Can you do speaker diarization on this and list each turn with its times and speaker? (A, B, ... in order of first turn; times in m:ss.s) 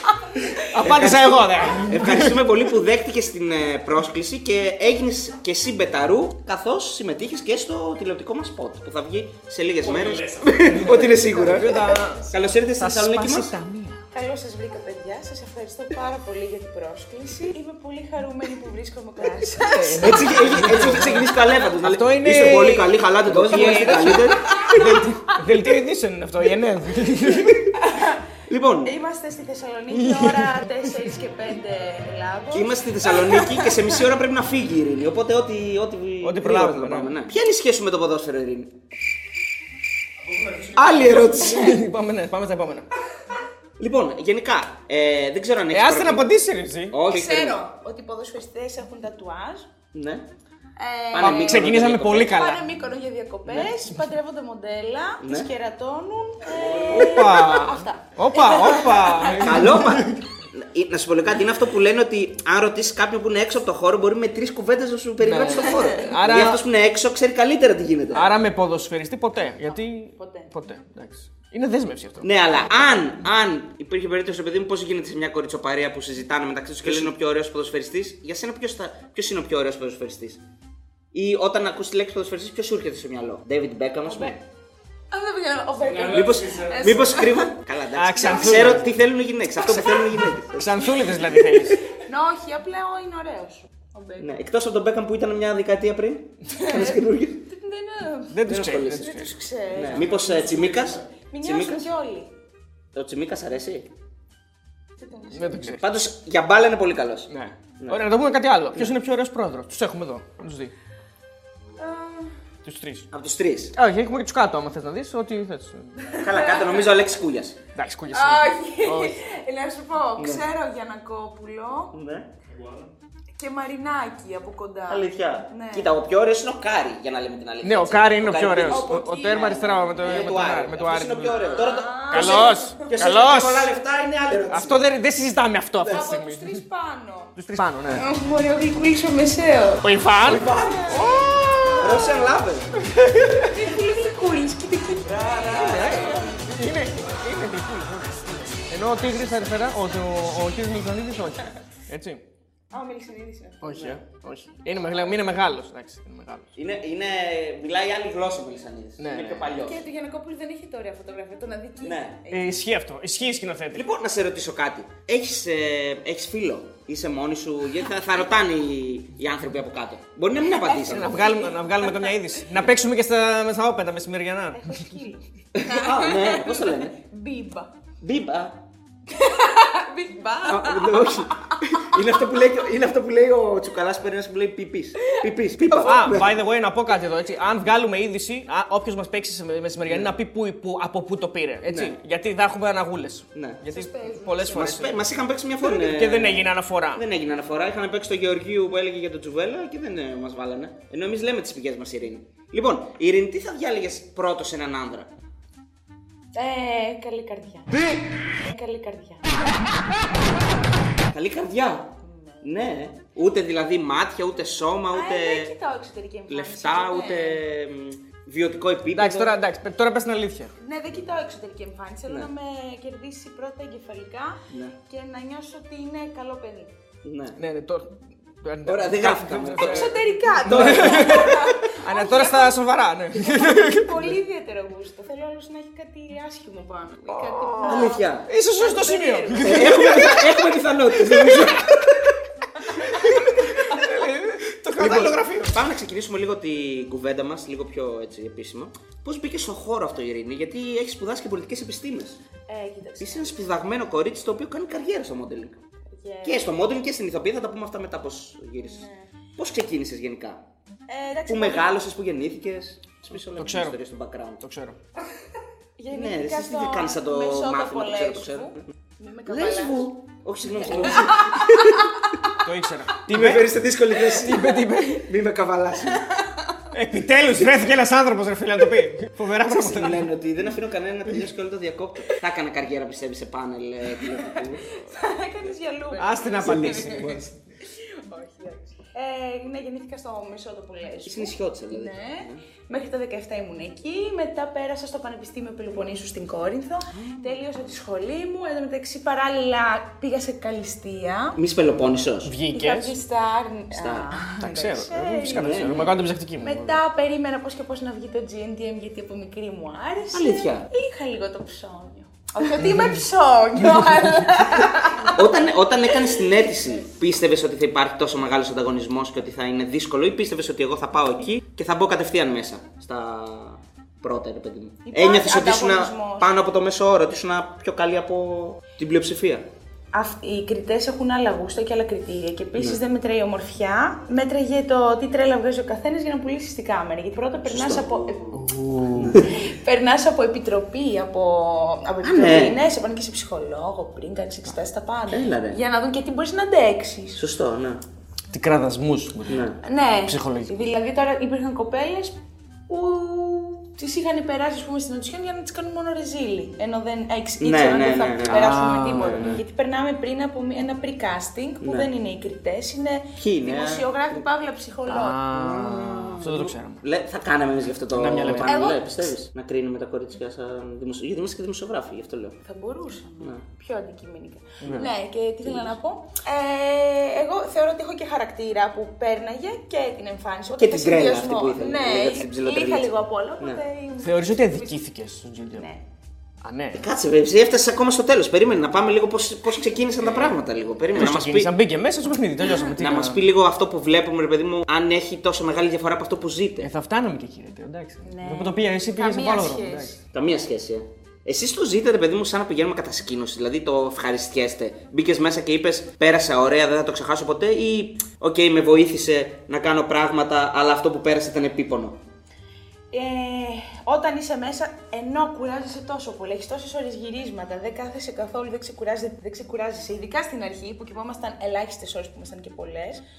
0:00.6-0:02.6 A
0:00.7-0:13.5 B
0:09.8-0:14.0 A
0:10.9-0:12.4 C
0:14.1-0:20.6 C
0:19.7-0:27.8 A
0:20.0-0:25.0 B
0:23.5-0:25.4 C
0:27.7-0:28.2 C
0:28.4-0:28.9 B
0:28.8-0:34.0 C
0:29.9-0:30.7 A
0:32.5-0:38.8 B
0:36.2-0:37.1 A
0:40.2-0:42.9 A
0:40.7-0:41.8 B
0:43.8-0:46.3 B
0:45.7-0:47.0 A
0:46.9-0:47.6 B
0:47.1-0:49.7 C
0:49.9-0:50.3 B
0:50.8-0:51.7 C
0:51.1-0:52.4 B
0:51.2-0:52.6 A
0:52.3-0:59.7 C
0:53.4-0:53.7 B
0:55.2-0:55.5 B
0:56.7-0:57.5 B
0:56.8-1:00.2 A
0:59.4-1:08.3 B
1:05.2-1:06.6 A
1:08.1-1:12.3 A
1:09.6-1:10.5 C
1:12.2-1:20.4 B
1:16.8-1:17.1 A
1:21.1-1:24.4 B
1:25.1-1:27.5 C
1:26.0-1:31.8 B
1:27.9-1:29.0 A
1:28.2-1:28.7 C
1:29.7-1:30.0 C
1:30.5-1:31.8 A
1:31.4-1:34.3 C
1:34.2-1:37.5 B
1:36.5-1:40.1 C
1:38.3-1:39.4 A
1:38.4-1:41.9 B
1:41.3-1:42.3 C
1:42.9-1:43.9 B
1:45.0-1:45.7 C
1:45.3-1:45.8 A
1:45.7-1:48.1 B
1:47.3-1:50.7 A
1:51.8-1:52.3 C
1:52.6-1:53.1 A
1:53.1-1:53.7 B
1:53.8-1:56.1 A
1:56.0-1:56.9 C
1:56.2-1:57.6 B
1:57.7-1:59.2 A
1:58.1-2:01.9 C
2:00.2-2:00.4 B
2:01.9-2:02.3 B
2:03.4-2:05.9 C
2:04.9-2:14.8 B
2:07.6-2:13.8 A
2:08.7-2:09.9 C
2:11.4-2:12.9 C
2:14.5-2:16.6 A
2:15.8-2:17.3 C
2:17.4-2:18.1 A
2:17.9-2:22.2 C
2:19.8-2:22.2 A
2:20.2-2:20.9 B
2:21.7-2:22.8 B
2:22.8-2:23.7 A
2:23.4-2:25.3 C
2:25.2-2:26.4 B
2:25.2-2:32.2 A
2:32.7-2:33.9 C
2:33.6-2:36.5 A
2:33.7-2:34.0 B
2:36.5-2:39.8 B
2:39.0-2:39.5 A
2:39.6-2:42.5 C
2:41.8-2:42.2 B
2:42.3-2:43.8 A
2:43.7-2:51.2 B
2:50.5-2:52.1 C
2:50.8-2:54.9 A
2:54.5-2:57.7 C
2:55.5-2:57.0 B
2:58.0-2:58.6 B
2:59.1-3:02.1 C
3:00.4-3:06.4 B
3:05.0-3:06.0 C
3:05.7-3:15.1 A
3:09.8-3:10.1 B
3:11.6-3:12.0 B
3:13.3-3:13.6 B
3:13.7-3:14.9 C
3:14.5-3:25.1 B
3:15.6-3:17.0 A
3:26.3-3:29.5 C
3:31.1-3:35.5 B
3:32.0-3:32.6 C
3:34.9-3:37.4 C
3:36.3-3:39.3 B
3:38.9-3:40.5 A
3:40.6-3:46.7 C
3:44.5-3:44.8 B
3:47.0-3:47.4 B
3:47.4-3:54.0 A
3:48.6-3:51.4 B
3:49.6-3:52.6 C
3:53.1-4:00.0 C
3:57.1-4:01.7 A
3:57.6-3:58.3 B
3:59.4-4:02.0 B
4:02.5-4:03.8 C
4:02.7-4:05.6 A
4:04.8-4:12.2 B
4:12.5-4:13.5 C
4:13.0-4:15.6 B
4:15.9-4:16.5 C
4:16.2-4:20.4 B
4:18.6-4:19.1 C
4:20.9-4:21.8 C
4:21.3-4:24.4 B
4:23.3-4:23.8 A
4:24.4-4:24.8 A
4:25.8-4:29.9 C
4:25.9-4:28.6 B
4:29.2-4:31.9 B
4:30.5-4:32.4 C
4:32.4-4:35.1 A
4:33.0-4:36.1 B
4:35.9-4:36.6 C
4:36.7-4:40.1 A
4:39.4-4:44.8 B
4:44.0-5:01.4 C
4:46.0-4:47.3 A
4:46.4-4:46.8 B
4:51.0-4:52.4 B
4:56.9-4:57.2 B
5:01.4-5:02.3 B
5:02.2-5:02.9 A
5:02.5-5:05.7 C
5:03.7-5:04.2 B
5:04.3-5:06.8 A
5:05.3-5:05.9 B
5:06.4-5:16.2 C
5:10.1-5:10.7 B
5:15.0-5:29.5 B
5:24.8-5:26.3 C
5:29.9-5:38.4 C
5:37.4-5:38.2 B
5:38.3-5:39.3 A
5:39.0-5:39.3 B
5:39.2-5:47.2 C
5:42.0-5:42.6 B
5:45.1-5:45.6 B
5:47.2-5:47.8 B
5:48.3-5:49.5 A
5:49.3-5:49.6 B
5:49.6-5:52.2 C
5:50.0-5:50.6 A
5:52.7-6:05.2 C
5:57.4-5:59.4 B
5:58.2-5:59.4 A
6:01.6-6:01.9 B
6:03.2-6:04.2 B
6:04.9-6:06.8 A
6:05.3-6:12.4 B
6:07.9-6:08.7 A
6:08.4-6:08.8 C
6:12.4-6:24.8 C
6:14.6-6:14.9 A
6:15.4-6:15.7 B
6:20.6-6:23.6 B
6:24.0-6:25.6 A
6:25.5-6:25.8 C
6:26.4-6:26.9 A
6:26.7-6:31.5 B
6:30.0-6:30.4 A
6:30.9-6:33.2 A
6:32.6-6:36.7 B
6:36.6-6:39.9 A
6:38.0-6:40.0 C
6:40.1-6:52.0 B
6:52.9-7:03.0 C